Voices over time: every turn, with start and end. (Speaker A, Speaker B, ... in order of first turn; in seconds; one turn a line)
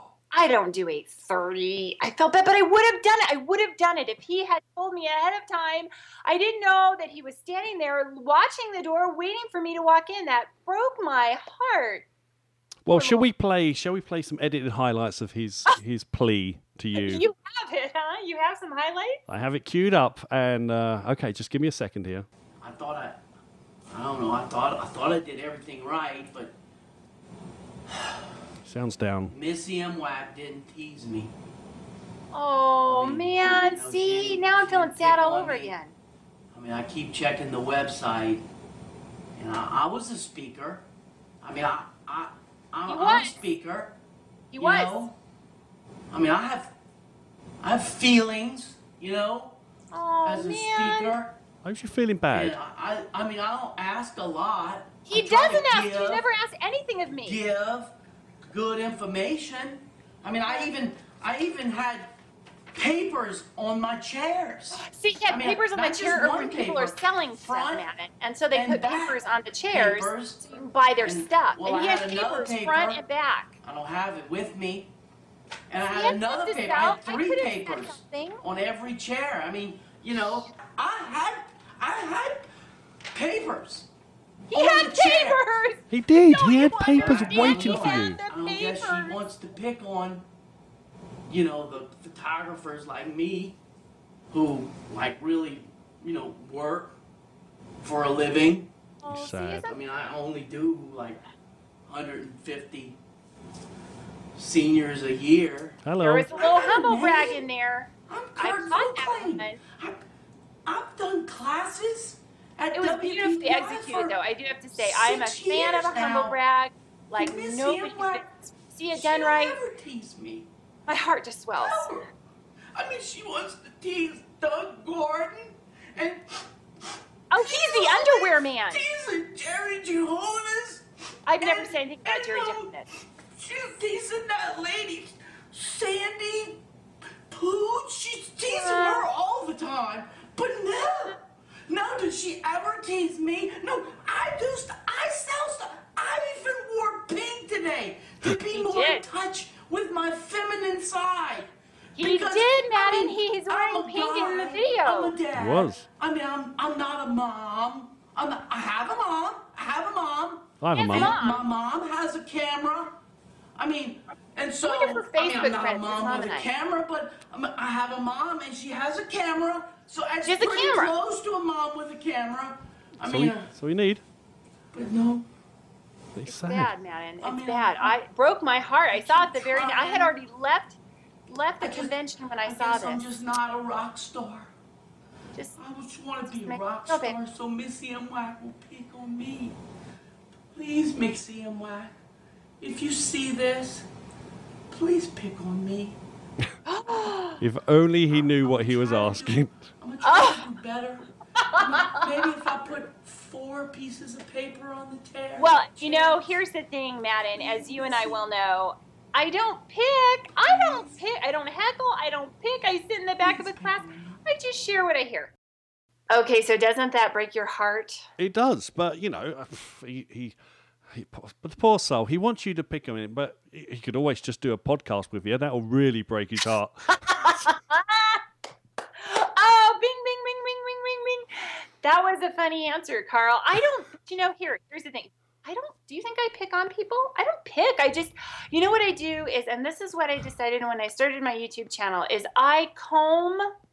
Speaker A: 0.3-12.1
Speaker B: 12.8-17.3
Speaker A: 12.9-13.2
Speaker A: 16.9-19.2
Speaker B: 19.3-22.3
Speaker C: 22.6-23.2
Speaker C: 23.9-26.5
Speaker C: 27.9-28.3
Speaker B: 28.6-29.3
Speaker C: 29.3-31.3
Speaker A: 32.3-35.9
Speaker C: 32.9-35.7
Speaker C: 36.5-38.4
Speaker C: 39.4-40.8
Speaker C: 41.4-43.9
Speaker A: 42.9-43.3
Speaker A: 44.5-45.0
Speaker C: 44.6-45.1
Speaker C: 46.1-46.7
Speaker C: 47.6-49.6
Speaker A: 49.9-51.1
Speaker C: 50.2-51.4
Speaker B: 51.6-52.6
Speaker C: 52.3-56.2
Speaker A: 55.0-57.4
Speaker C: 57.2-57.9
Speaker C: 58.4-62.1
Speaker C: 62.7-67.8
Speaker A: 64.7-73.5
Speaker C: 68.5-70.4
Speaker C: 71.0-73.0
Speaker C: 73.6-74.9
Speaker C: 75.7-82.5
Speaker A: 75.9-78.4
Speaker C: 83.1-83.9
Speaker C: 84.5-85.4
Speaker A: 84.5-89.2
Speaker B: 85.9-88.2
Speaker C: 86.9-90.2
Speaker C: 91.3-93.6
Speaker C: 94.3-97.0
Speaker C: 97.8-98.7
Speaker A: 99.0-99.7
Speaker B: 99.1-99.7
Speaker C: 99.6-101.2
Speaker C: 101.9-103.0
Speaker C: 104.3-107.4
Speaker B: 105.8-106.3
Speaker A: 106.0-109.6
Speaker C: 108.1-110.0
Speaker C: 110.7-114.2
Speaker A: 112.7-119.6
Speaker C: 114.7-116.4
Speaker C: 117.2-118.3
Speaker C: 118.9-120.5
Speaker A: 120.9-121.9
Speaker C: 121.5-122.1
Speaker C: 122.7-126.4
Speaker A: 127.3-128.8
Speaker C: 127.4-130.8
Speaker A: 131.2-132.9
Speaker C: 131.4-132.7
Speaker C: 133.3-136.6
Speaker C: 137.3-162.9
Speaker A: 138.5-139.1
Speaker A: 148.5-149.0
Speaker A: 152.0-155.1
Speaker B: 155.3-155.8
Speaker B: 160.6-161.2
Speaker A: 160.8-161.4
Speaker C: 163.6-173.5
Speaker A: 164.6-166.5
Speaker A: 170.2-170.9
Speaker B: 173.0-174.0
Speaker C: 174.7-175.2
Speaker B: 176.1-176.7
Speaker A: 176.3-180.8
Speaker C: 177.2-178.0
Speaker C: 178.9-180.1
Speaker A: 181.3-183.0
Speaker C: 181.6-184.5
Speaker C: 185.6-189.6
Speaker A: 186.4-187.2
Speaker C: 190.5-191.9
Speaker C: 192.6-193.9
Speaker C: 194.7-195.9
Speaker A: 196.7-197.4
Speaker B: 197.4-199.6
Speaker C: 198.3-206.4
Speaker A: 200.0-200.4
Speaker A: 201.3-202.1
Speaker A: 205.4-215.3
Speaker C: 207.3-208.3
Speaker C: 210.4-210.9
Speaker C: 213.2-214.2
Speaker A: 216.1-218.0
Speaker B: 218.2-220.3
Speaker B: 220.9-227.4
Speaker A: 227.0-228.2
Speaker A: 228.9-243.5